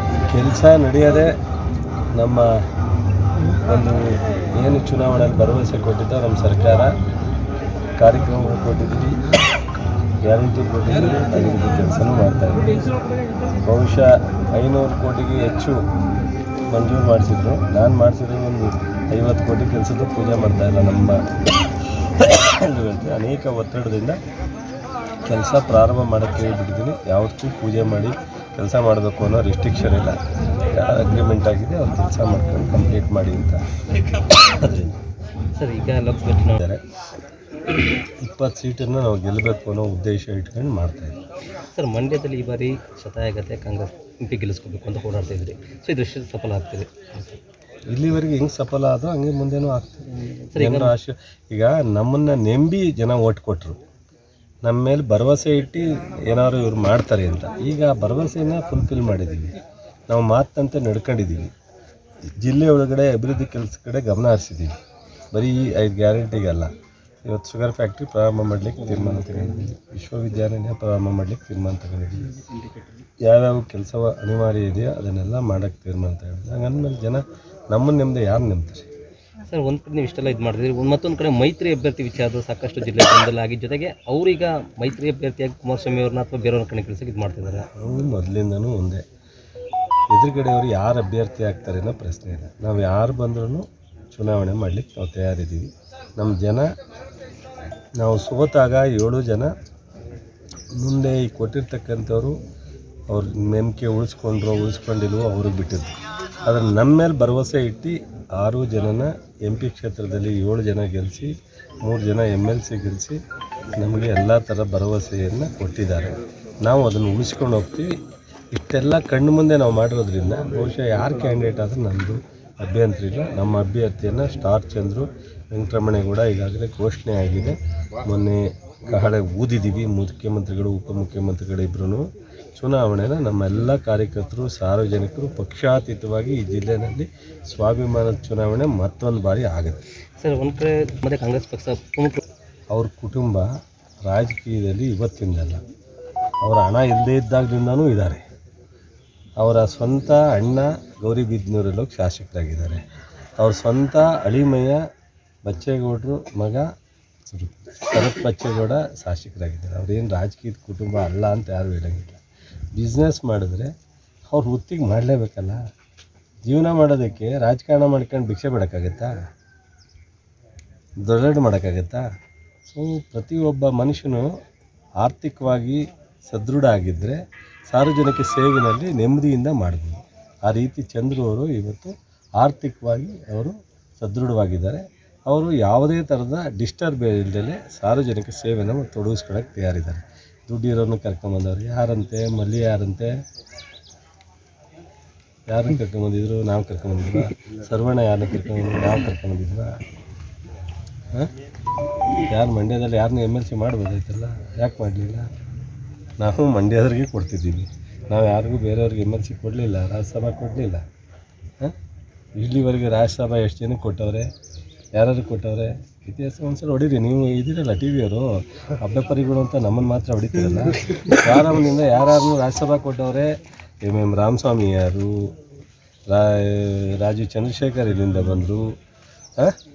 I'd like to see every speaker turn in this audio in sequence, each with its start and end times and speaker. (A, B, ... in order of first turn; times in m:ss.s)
0:00.3-0:01.3 A
0:02.1-0:02.5 A
0:03.6-0:06.9 A
0:08.0-0:09.2 A
0:10.2-0:12.8 A
0:13.6-0:15.8 A
0:16.7-0:21.2 A
0:22.0-0:24.2 A
0:25.2-0:30.2 A
0:30.7-0:35.0 A
0:35.5-0:36.6 B
0:36.6-0:36.8 A
0:38.0-0:41.2 A
0:41.7-0:47.4 B
0:47.9-0:53.8 A
0:50.5-0:50.9 B
0:54.6-0:59.6 A
1:00.1-1:01.5 A
1:02.3-1:04.7 A
1:05.3-1:06.7 A
1:07.2-1:12.4 A
1:13.2-1:18.9 A
1:19.4-1:27.7 B
1:27.7-1:29.0 A
1:30.1-1:36.6 A
1:38.0-1:39.5 A
1:40.8-1:42.4 A
1:43.1-1:53.2 A
1:53.8-1:57.9 A
1:58.5-2:19.8 A
2:20.2-2:22.2 B
2:22.7-2:23.5 A
2:24.1-2:25.6 A
2:26.4-2:28.2 A
2:29.4-2:32.8 A
2:33.4-2:34.8 A
2:35.4-2:36.7 A
2:37.2-2:42.2 A
2:42.7-2:43.7 A
2:44.3-2:45.6 A
2:46.4-2:49.1 A
2:51.0-2:52.0 A
2:52.6-2:54.3 A
2:55.0-3:13.1 A
3:15.5-3:19.8 A
3:22.3-3:25.3 A
3:26.2-3:30.8 A
3:32.4-3:34.3 A
3:35.0-3:45.3 A
3:46.1-3:48.7 A